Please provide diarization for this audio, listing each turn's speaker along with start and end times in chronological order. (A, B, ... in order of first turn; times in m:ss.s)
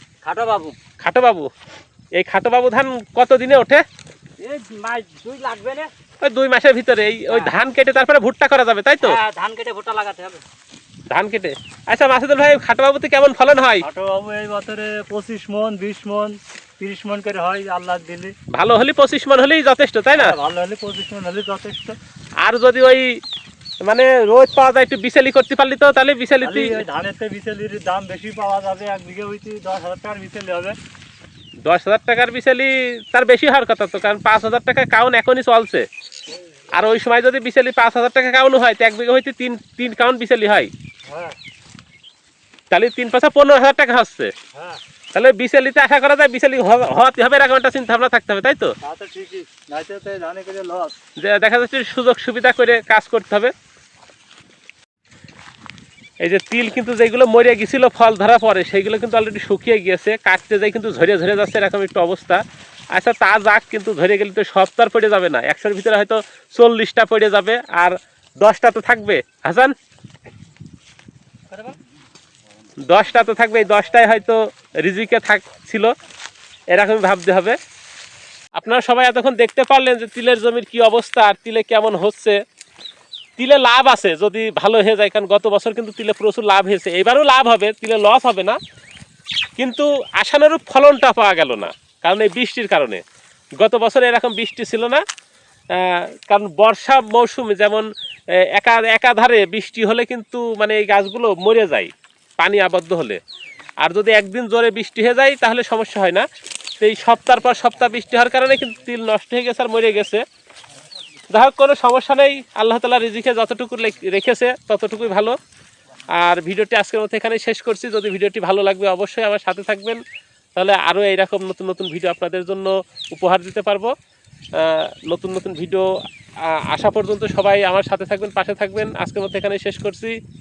0:00.2-0:00.8 A
0:01.0-0:01.5 B
0:02.2-0:03.8 B
0:04.4-0:05.9 A
0:06.2-0:09.2 B
0:09.0-0:10.4 A
0:11.1-0:13.8 B
0:13.8-0:18.3 C
0:18.5-0:20.3 B
0:20.2-0:22.0 C
0:22.4-0:23.1 B
0:23.8-0:26.8 B
0:26.4-0:30.8 C
0:31.6-0:35.9 B
0:36.7-0:40.7 B
0:41.1-0:41.4 C
0:42.7-0:44.3 B
0:44.5-0:44.8 C
0:45.1-0:48.7 B
0:48.8-0:51.0 C
0:51.2-0:53.5 B
0:56.2-1:02.4 B
1:02.9-1:09.7 B
1:12.8-1:15.9 B
1:16.7-1:17.6 B
1:18.6-1:22.4 B
1:23.4-1:28.6 B
1:29.6-1:33.0 B
1:33.6-1:35.0 B
1:35.7-1:37.9 B
1:38.4-1:43.2 B
1:43.8-1:46.2 B
1:46.8-1:50.2 B
1:51.3-1:55.4 B
1:56.1-2:00.0 B
2:00.6-2:03.9 B
2:04.6-2:05.9 B
2:06.5-2:10.2 B